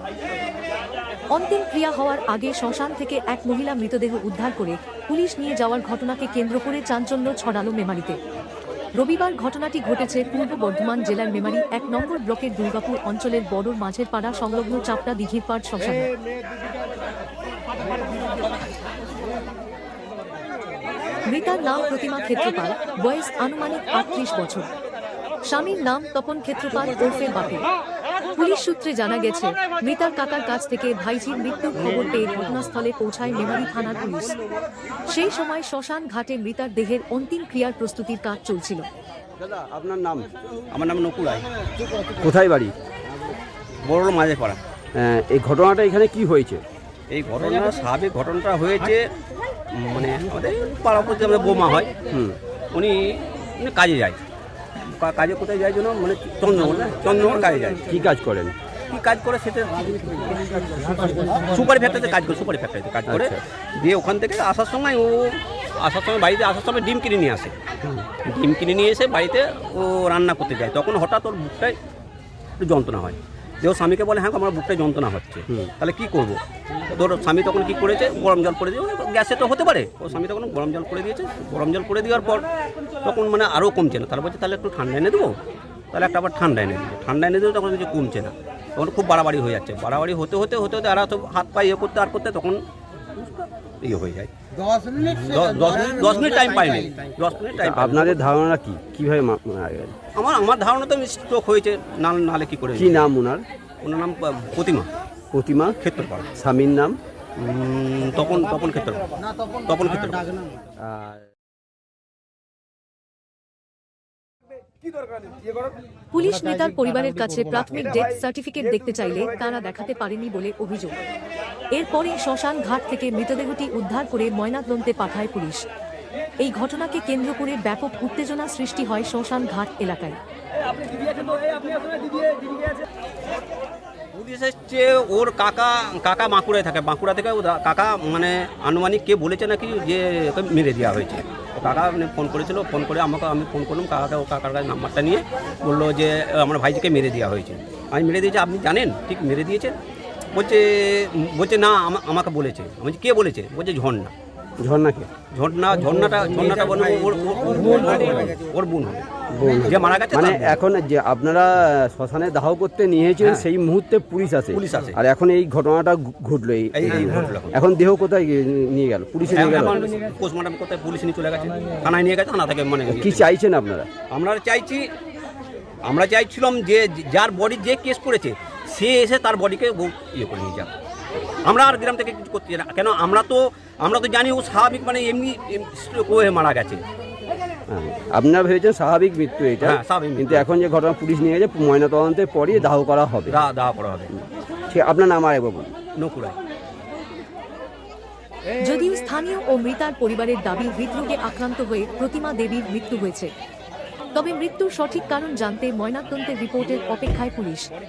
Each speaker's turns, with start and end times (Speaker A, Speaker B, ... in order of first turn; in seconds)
Speaker A: 1.3-8.2, 9.0-16.1, 21.2-24.7, 25.4-27.7, 28.3-34.4, 35.0-38.9, 116.1-121.0, 121.7-125.7, 126.4-130.2, 198.6-203.3, 204.1-207.7
Speaker B: 39.4-40.3, 42.2-42.7, 45.0-46.6, 52.1-52.4, 57.9-58.5, 63.1-63.4, 97.5-99.9, 102.8-103.4, 105.3-105.8, 106.3-107.0, 110.8-111.2, 154.6-155.1, 159.3-169.8, 172.9-173.9, 187.7-193.4, 194.7-195.7
Speaker C: 40.7-41.5, 43.8-44.6, 47.1-49.0, 49.7-51.9, 52.7-54.2, 54.8-57.9, 58.9-67.5, 68.2-71.8, 72.6-76.4, 76.9-82.5, 83.0-85.3, 85.9-92.6, 93.8-94.3, 94.9-98.2, 100.2-103.1, 103.8-104.9, 105.8-106.3, 107.4-109.1, 109.7-110.3, 131.2-131.8, 134.1-149.8, 150.3-154.1, 155.3-160.6, 163.2-163.4, 164.5-164.9, 166.7-167.6, 169.3-173.2, 174.1-174.9, 175.8-180.7, 181.4-186.8, 189.6-190.4, 193.3-194.1, 195.9-196.4